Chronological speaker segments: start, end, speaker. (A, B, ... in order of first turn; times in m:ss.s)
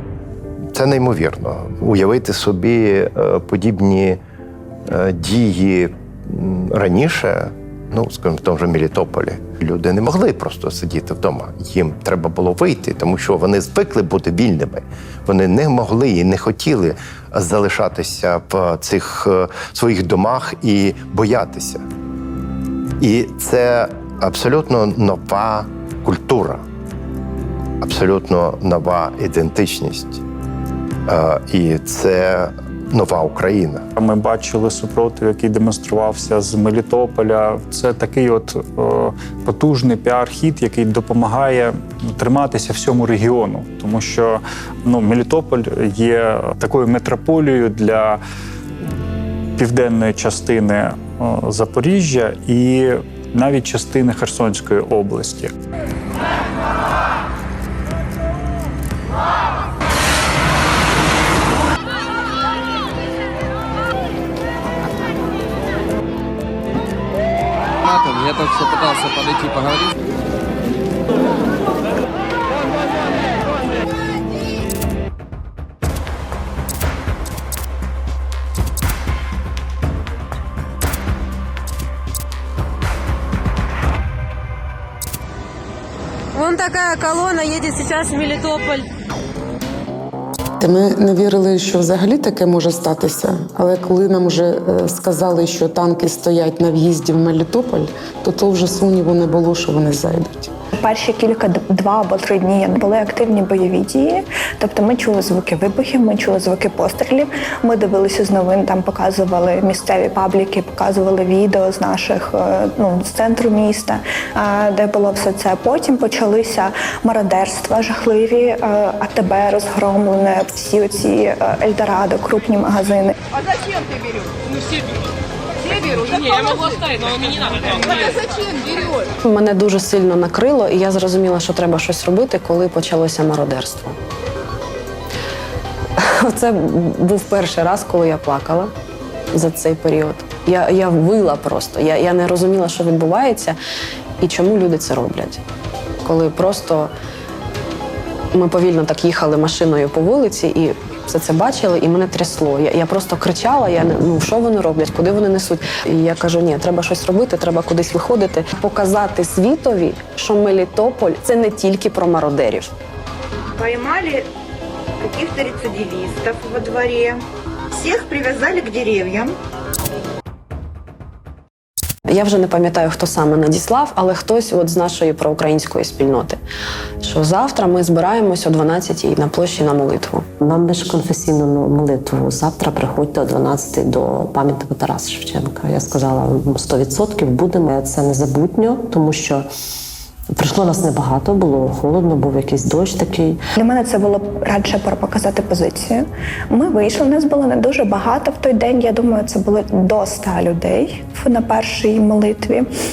0:00.7-0:04.2 A
0:04.9-0:21.9 A
0:23.0-0:26.6 A
0:27.8-0:30.2 A
0:31.1-0:33.8 A
0:34.0-0:48.2 B
0:49.6-0:55.5 B
1:07.8-1:09.9 C
1:26.4-1:28.8 D
1:30.6-1:40.5 E
1:40.8-2:03.2 F
2:09.2-2:14.0 G
2:16.0-2:18.7 G
2:19.3-2:23.6 G
2:24.2-2:25.4 G
2:26.0-2:26.9 G
2:28.3-2:42.7 G
2:43.6-2:44.3 H
2:45.0-2:47.2 H
2:47.8-2:49.4 H
2:52.1-2:56.4 G
2:57.0-3:00.3 G
3:00.4-3:09.5 I
3:10.3-3:13.4 I
3:13.6-3:22.7 F